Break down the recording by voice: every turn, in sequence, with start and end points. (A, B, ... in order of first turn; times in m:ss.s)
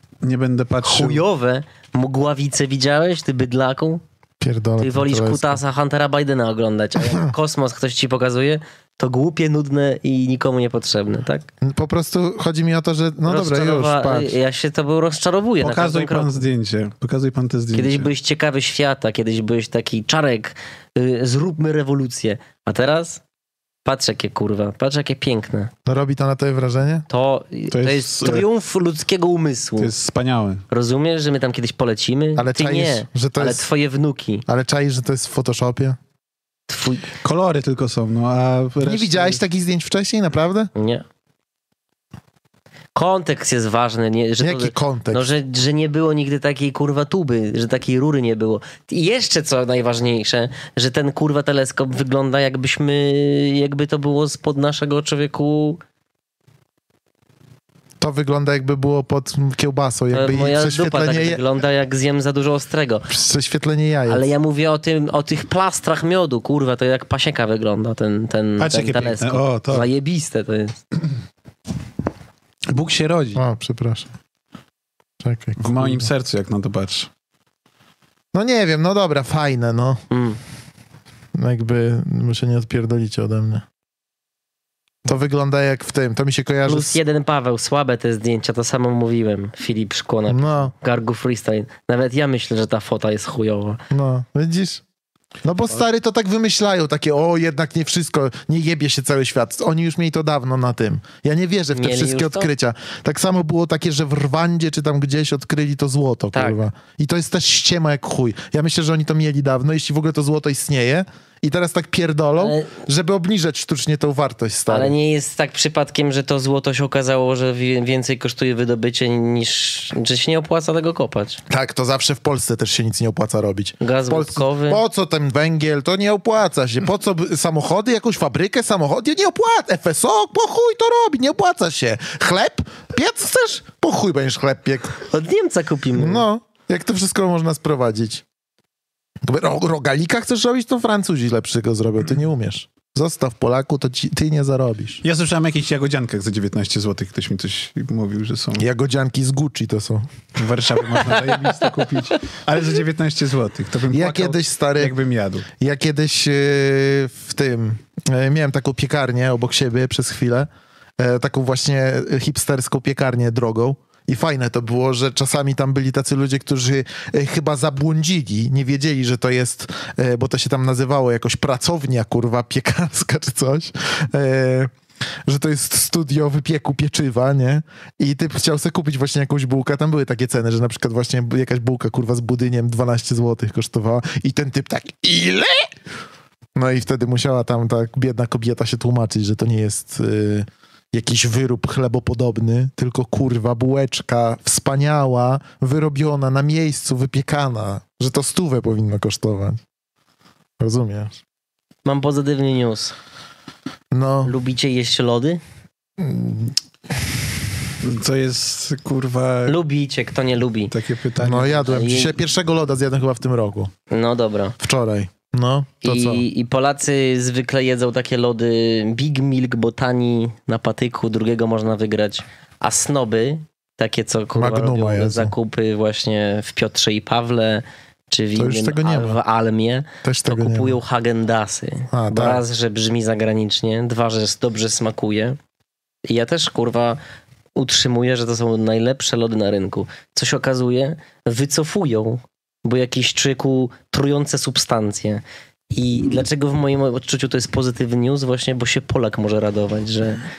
0:00.2-0:01.2 A
0:00.8-0:04.0 B
0:04.4-0:05.6 C
0:04.8-0:11.5 B
0:07.0-0:07.3 C
0:11.6-0:14.4 C
0:13.3-0:16.4 B
0:15.6-0:18.1 A
0:17.7-0:23.2 B
0:23.8-0:25.7 B
0:25.9-0:27.1 C
0:27.1-0:29.9 B
0:27.7-0:28.5 A
0:29.8-0:30.6 A
0:30.7-0:34.4 B
0:32.4-0:33.7 C
0:34.5-0:36.0 C
0:36.7-0:37.1 B
0:37.2-0:39.4 A
0:38.8-0:40.7 C
0:40.8-0:41.0 B
0:43.0-0:55.8 B
0:44.4-0:45.2 C
0:58.0-1:01.4 C
1:00.1-1:03.1 B
1:03.1-1:04.3 C
1:04.1-1:10.8 B
1:08.6-1:09.9 A
1:12.7-1:13.4 A
1:13.4-1:14.1 C
1:15.2-1:16.1 C
1:15.6-1:17.1 A
1:18.3-1:20.0 C
1:20.1-1:20.4 B
1:21.4-1:23.6 C
1:25.1-1:27.0 C
1:26.7-1:33.8 B
1:30.3-1:30.7 C
1:33.9-1:34.8 C
1:35.4-1:55.0 C
1:41.7-1:42.5 B
1:46.3-1:46.6 B
1:52.4-1:52.7 B
1:54.7-2:01.4 B
2:01.5-2:15.0 C
2:03.8-2:04.8 B
2:15.1-2:16.2 B
2:16.0-2:18.2 C
2:19.2-2:25.0 C
2:25.0-2:28.7 A
2:28.6-2:30.1 C
2:30.4-2:35.5 A
2:33.9-2:35.0 C
2:35.6-2:54.7 C
2:55.3-3:05.7 C
3:06.6-3:19.6 C
3:20.6-3:21.2 C
3:21.8-3:23.0 B
3:23.9-3:24.3 C
3:24.2-3:25.4 B
3:26.0-3:26.6 C
3:27.8-3:29.6 A
3:29.5-3:30.7 B
3:30.7-3:31.7 A
3:31.2-3:33.7 C
3:31.6-3:32.2 B
3:33.9-3:34.6 B
3:34.6-3:36.2 C
3:35.8-3:55.4 B
3:44.4-3:45.3 C
3:48.4-3:49.2 C
3:50.0-3:50.8 C
3:51.9-3:52.4 C
3:56.0-3:57.0 B
3:57.6-4:10.2 B